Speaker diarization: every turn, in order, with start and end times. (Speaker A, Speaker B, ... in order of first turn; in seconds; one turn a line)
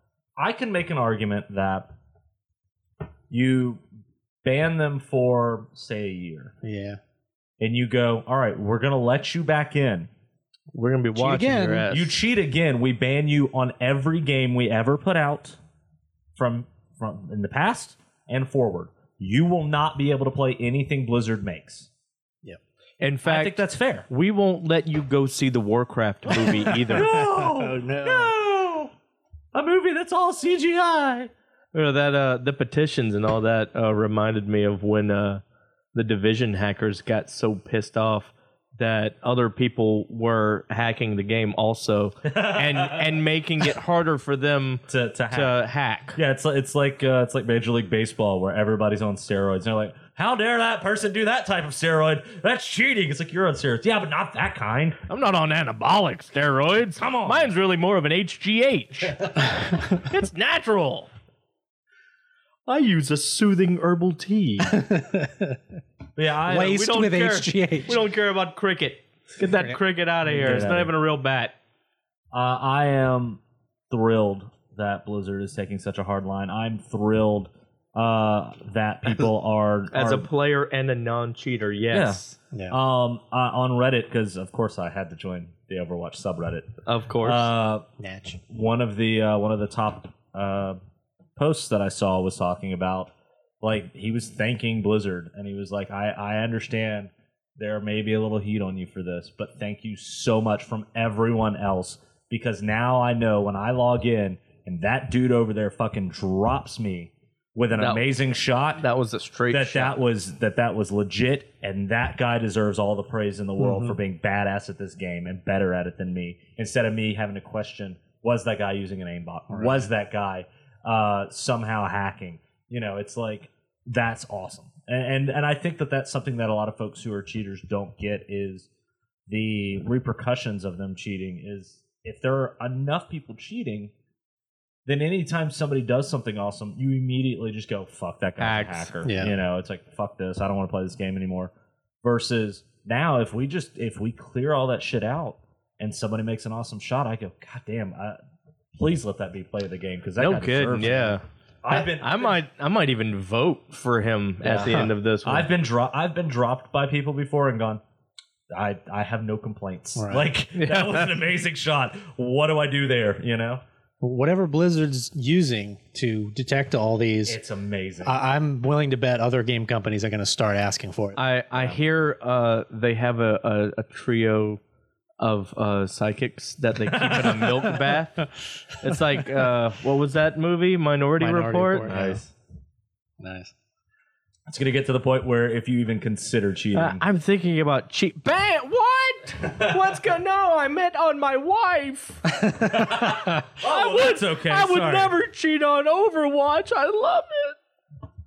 Speaker A: 0.4-1.9
Speaker A: 3.3-3.8
Speaker A: 4.4-6.5
Speaker B: 6.6-7.0
Speaker A: 7.6-10.1
Speaker C: 10.7-12.1
Speaker B: 11.2-11.9
Speaker A: 11.9-15.6
Speaker A: 16.4-21.9
Speaker C: 23.0-27.1
Speaker A: 23.2-24.1
Speaker B: 26.7-28.3
Speaker A: 26.9-28.9
Speaker A: 29.5-31.3
Speaker C: 31.7-35.4
Speaker C: 35.9-46.2
Speaker A: 42.2-43.1
Speaker A: 44.9-45.5
Speaker A: 46.1-55.0
Speaker C: 55.1-61.1
Speaker A: 57.0-57.5
Speaker C: 62.7-64.8
Speaker B: 64.7-65.6
Speaker A: 66.2-66.8
Speaker B: 66.5-68.0
Speaker C: 66.5-71.5
Speaker A: 70.3-70.9
Speaker A: 72.3-80.3
Speaker C: 79.9-82.4
Speaker A: 81.9-87.9
Speaker B: 82.5-82.8
Speaker C: 86.8-87.5
Speaker B: 88.0-88.4
Speaker A: 88.4-90.8
Speaker A: 91.4-93.1
Speaker A: 93.6-108.8
Speaker C: 107.8-108.0
Speaker C: 108.8-110.0
Speaker A: 109.5-128.7
Speaker B: 113.6-114.0
Speaker B: 119.5-119.9
Speaker A: 129.3-133.9
Speaker A: 134.9-141.5
Speaker C: 138.4-138.9
Speaker B: 139.0-139.3
Speaker A: 142.0-148.2
Speaker A: 148.8-152.4
Speaker C: 150.2-151.2
Speaker C: 151.7-155.5
Speaker A: 154.4-157.8
Speaker B: 154.7-154.9
Speaker A: 158.5-163.6
Speaker B: 160.0-160.3
Speaker C: 160.6-161.1
Speaker B: 164.0-167.4
Speaker A: 167.3-168.2
Speaker B: 168.0-171.2
Speaker C: 171.2-174.6
Speaker A: 171.6-171.8
Speaker C: 175.2-182.0
Speaker A: 176.9-177.7
Speaker B: 181.2-182.2
Speaker A: 181.9-182.3
Speaker B: 183.2-183.5
Speaker A: 184.5-187.0
Speaker C: 186.7-193.1
Speaker B: 192.4-192.7
Speaker A: 192.7-195.2
Speaker C: 193.6-197.6